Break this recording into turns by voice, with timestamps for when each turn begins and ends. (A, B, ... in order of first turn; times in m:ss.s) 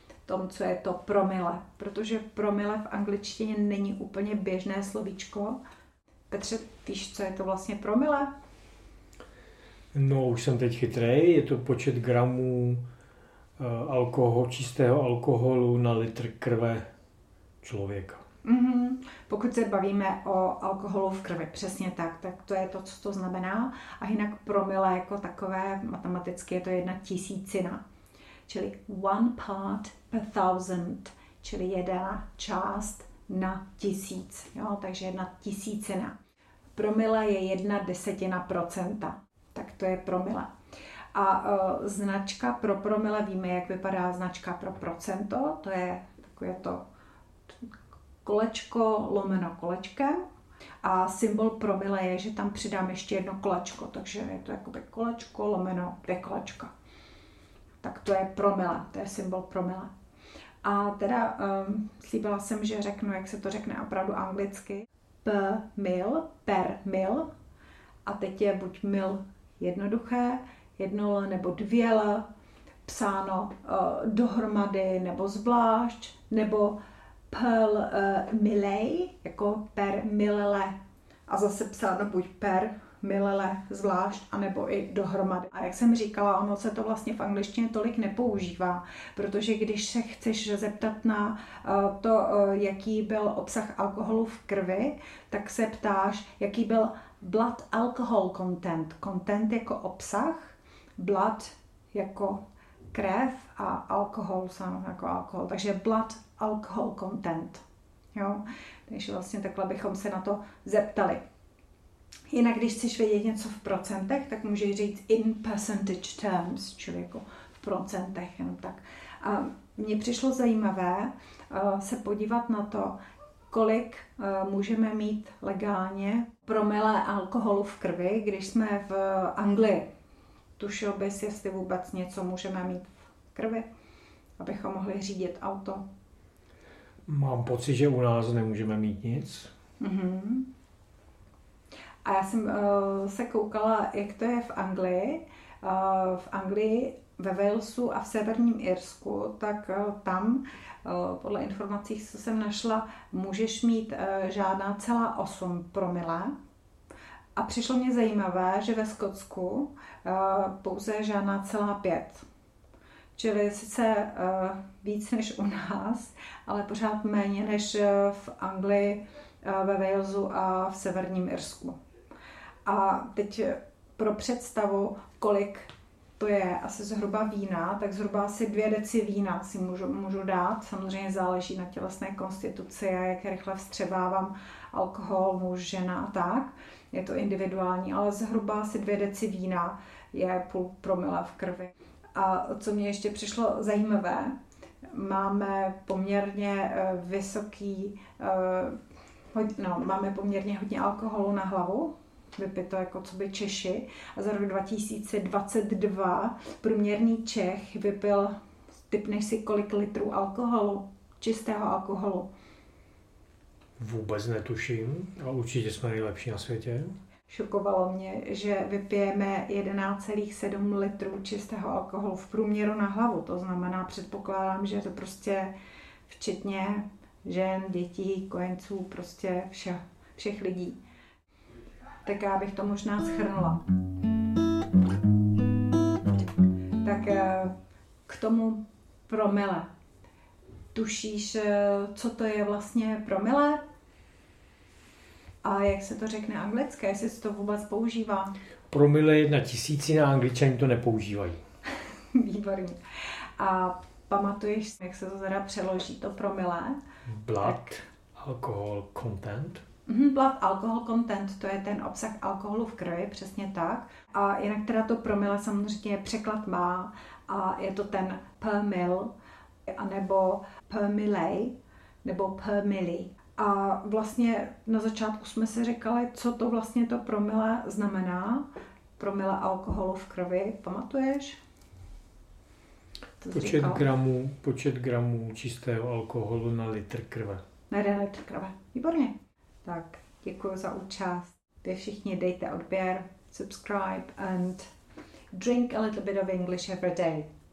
0:00.3-0:05.6 A
0:06.3-0:08.3 A
0:09.9-0:12.8 B
0:13.6-0:16.8 B
0:17.6-0:18.2 B
0:18.4-0:27.8 A
0:28.5-0:36.1 A
0:36.8-0:40.5 A
0:41.1-0:46.8 A
0:48.2-0:50.2 A
0:50.8-0:56.7 A
0:57.8-0:59.9 A
1:00.6-1:07.3 A
1:08.0-1:12.2 A
1:12.8-1:16.8 A
1:17.3-1:20.7 A
1:21.3-1:42.4 A
1:42.9-1:47.6 A
1:48.1-1:51.2 A
1:52.3-2:03.0 A
2:03.5-2:09.8 A
2:10.6-2:13.6 A
2:14.4-2:15.8 A
2:17.1-2:19.5 B
2:19.8-2:20.5 A
2:22.0-2:36.3 A
2:37.4-2:42.2 A
2:43.2-2:51.8 A
2:52.6-3:14.3 A
3:14.9-3:18.8 A
3:19.3-3:28.3 A
3:28.9-3:32.3 A
3:33.8-3:37.0 B
3:37.3-3:45.5 A
3:46.1-3:50.8 A
3:52.0-3:53.6 A
3:56.8-3:57.5 A
3:58.0-3:59.7 A
4:00.7-4:03.6 A
4:05.4-4:08.4 A
4:08.7-4:11.4 B
4:12.1-4:12.8 A
4:13.4-4:16.8 A
4:17.0-4:19.6 B
4:19.9-4:29.1 A
4:29.7-4:38.4 A
4:39.0-4:41.4 A
4:43.2-4:43.8 A
4:43.3-4:47.4 B
4:47.7-4:49.1 A
4:49.6-4:54.7 A
4:55.3-4:57.3 A